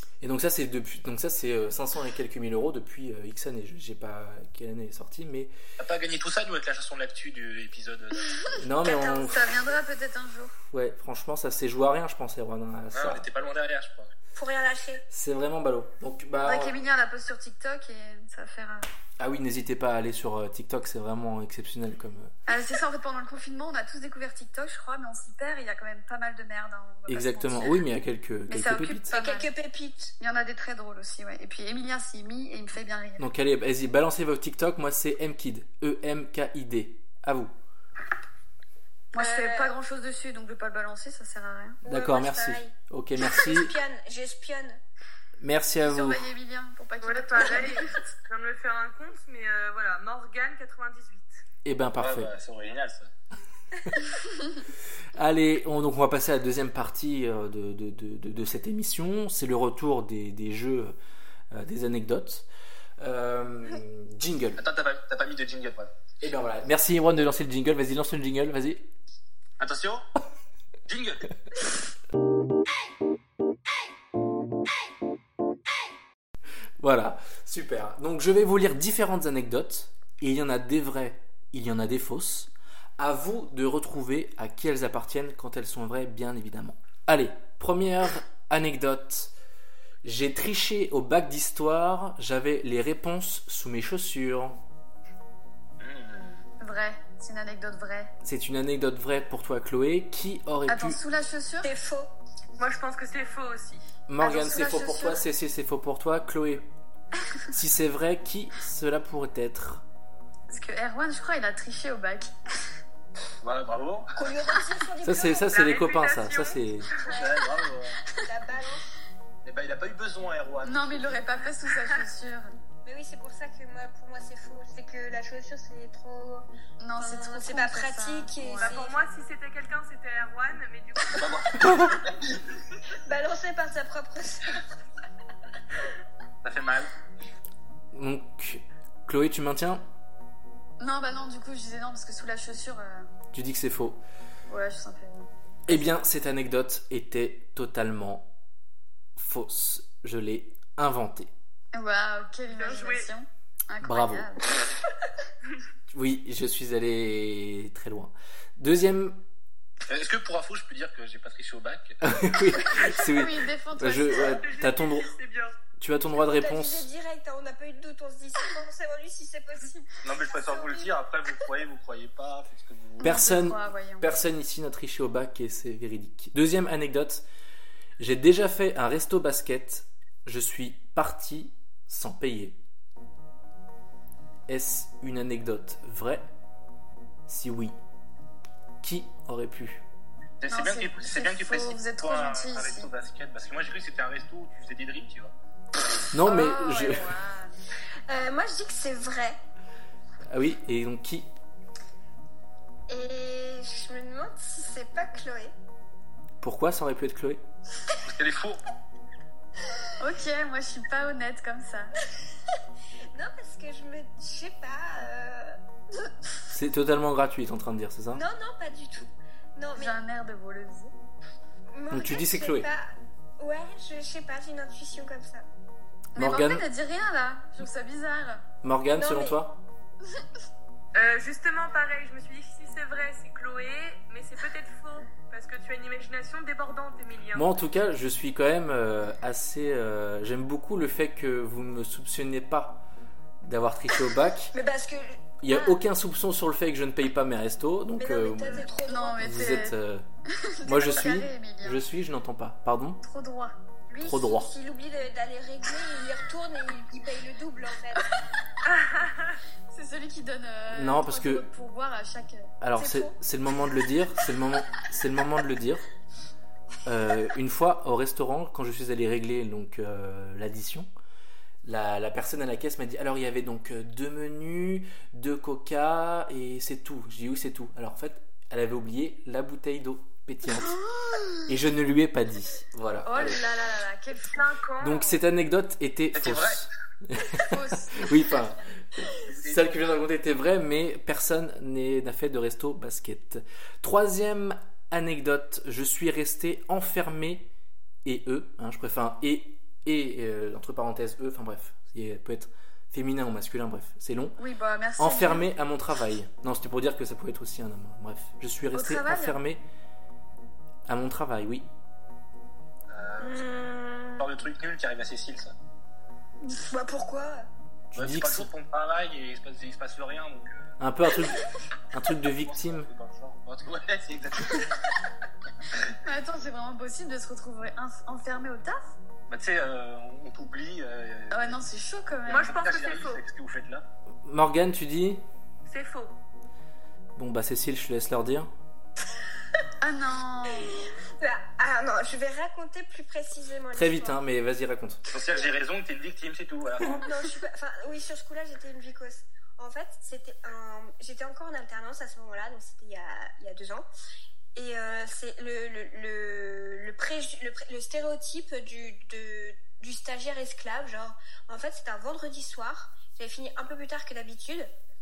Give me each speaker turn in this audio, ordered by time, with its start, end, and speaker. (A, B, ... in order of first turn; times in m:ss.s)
0:00.2-0:05.5 A
0:05.8-0:08.6 B
0:08.6-0:09.5 A
0:08.8-0:09.3 C
0:08.9-0:10.5 D
0:10.7-0:13.2 A
0:12.9-0:14.1 B
0:14.3-0:15.0 C
0:15.1-0:16.8 A
0:16.4-0:18.8 D
0:19.2-0:22.3 A
0:22.5-0:27.8 D
0:27.1-0:29.1 A
0:28.5-0:29.5 D
0:29.1-0:30.1 C
0:30.2-0:33.3 D
0:33.2-0:37.5 A
0:39.1-0:41.8 D
0:39.2-0:39.8 C
0:41.8-0:44.8 C
0:41.8-0:43.8 A
0:45.4-0:46.2 A
0:45.8-0:48.1 D
0:47.0-0:51.4 E
0:51.6-0:52.3 A
0:52.0-0:53.1 B
0:55.1-1:01.0 A
1:01.5-1:02.5 A
1:03.0-1:04.6 A
1:04.6-1:06.0 B
1:06.2-1:08.9 A
1:09.6-1:10.0 B
1:10.9-1:11.2 B
1:16.8-1:29.3 A
1:30.0-1:34.6 A
1:35.8-1:36.4 B
1:36.6-1:38.1 D
1:38.2-1:41.0 A
1:40.7-1:41.7 D
1:41.6-1:42.1 C
1:42.6-1:43.8 E
1:44.1-1:46.7 A
1:44.2-1:45.2 D
1:47.5-1:49.8 A
1:50.5-1:52.3 D
1:53.4-1:54.2 B
1:54.2-1:55.5 C
1:55.0-1:56.9 A
1:55.5-1:57.1 E
1:57.0-1:57.6 C
1:57.1-1:58.0 B
1:58.2-1:58.9 C
1:59.4-2:01.2 B
2:00.6-2:02.5 D
2:02.8-2:06.4 C
2:06.8-2:08.8 D
2:07.0-2:09.1 C
2:08.6-2:11.3 E
2:11.1-2:12.4 B
2:11.6-2:12.0 A
2:13.0-2:14.6 C
2:16.4-2:16.9 B
2:17.9-2:19.8 A
2:20.8-2:23.1 D
2:23.3-2:24.0 A
2:24.5-2:25.9 D
2:25.7-2:28.3 A
2:29.2-2:31.3 A
2:31.7-2:34.6 D
2:32.5-2:33.1 E
2:33.8-2:34.3 A
2:35.9-2:39.2 A
2:39.9-2:42.3 B
2:42.0-2:45.1 A
2:42.8-2:44.4 D
2:44.1-2:45.5 E
2:45.8-2:46.9 A
2:46.2-2:50.9 C
2:50.0-2:53.2 B
2:53.0-2:54.1 D
2:53.0-2:57.2 A
2:58.0-3:02.6 A
3:04.5-3:06.3 A
3:07.3-3:07.8 A
3:08.8-3:09.8 A
3:10.4-3:15.3 B
3:10.5-3:12.9 D
3:16.1-3:17.1 A
3:16.2-3:17.5 D
3:18.1-3:19.4 C
3:20.3-3:21.3 A
3:22.9-3:25.5 C
3:26.4-3:27.4 A
3:28.0-3:28.6 B
3:30.0-3:32.0 D
3:33.1-3:35.6 C
3:36.5-3:38.2 A
3:38.1-3:40.0 C
3:39.8-3:40.9 D
3:41.7-3:45.4 C
3:41.9-3:42.7 A
3:46.2-3:48.4 D
3:46.2-3:46.6 A
3:48.6-3:49.6 A
3:49.0-3:49.4 C
3:50.9-3:57.5 E
3:57.3-4:02.8 A
4:03.4-4:04.5 A
4:04.5-4:05.3 C
4:05.4-4:08.7 A
4:08.0-4:09.6 C
4:08.8-4:09.8 D
4:09.2-4:10.0 A
4:10.3-4:11.8 D
4:10.6-4:13.0 A
4:13.0-4:13.6 D
4:13.9-4:18.3 C
4:14.0-4:14.5 A
4:18.7-4:19.4 E
4:19.7-4:23.1 D
4:20.7-4:21.4 A
4:22.6-4:25.9 A
4:26.8-4:30.9 A
4:31.6-4:40.8 A
4:40.6-4:41.5 D
4:41.5-4:43.4 A
4:43.0-4:44.5 D
4:44.3-4:45.2 E
4:44.8-4:48.6 A
4:46.1-4:46.7 B
4:47.4-4:48.1 D
4:49.1-4:49.8 B
4:49.3-4:57.5 A
4:58.0-5:04.4 A
5:04.4-5:05.5 D
5:05.0-5:09.6 A
5:08.7-5:09.4 D
5:10.9-5:11.7 A
5:12.9-5:13.7 B
5:13.2-5:14.3 C
5:14.2-5:15.5 B
5:16.4-5:17.5 C
5:17.9-5:18.5 A
5:18.0-5:20.7 B
5:20.8-5:22.9 A
5:22.4-5:24.8 B
5:25.9-5:29.0 D
5:29.3-5:31.6 B
5:31.3-5:32.6 D
5:32.2-5:33.8 B
5:32.3-5:33.2 E
5:34.2-5:35.2 A
5:35.6-5:36.1 E
5:37.2-5:38.5 A
5:39.8-5:40.8 D
5:41.2-5:44.2 C
5:43.7-5:45.0 A
5:45.1-5:47.1 B
5:47.0-5:53.8 C
5:54.5-6:04.7 C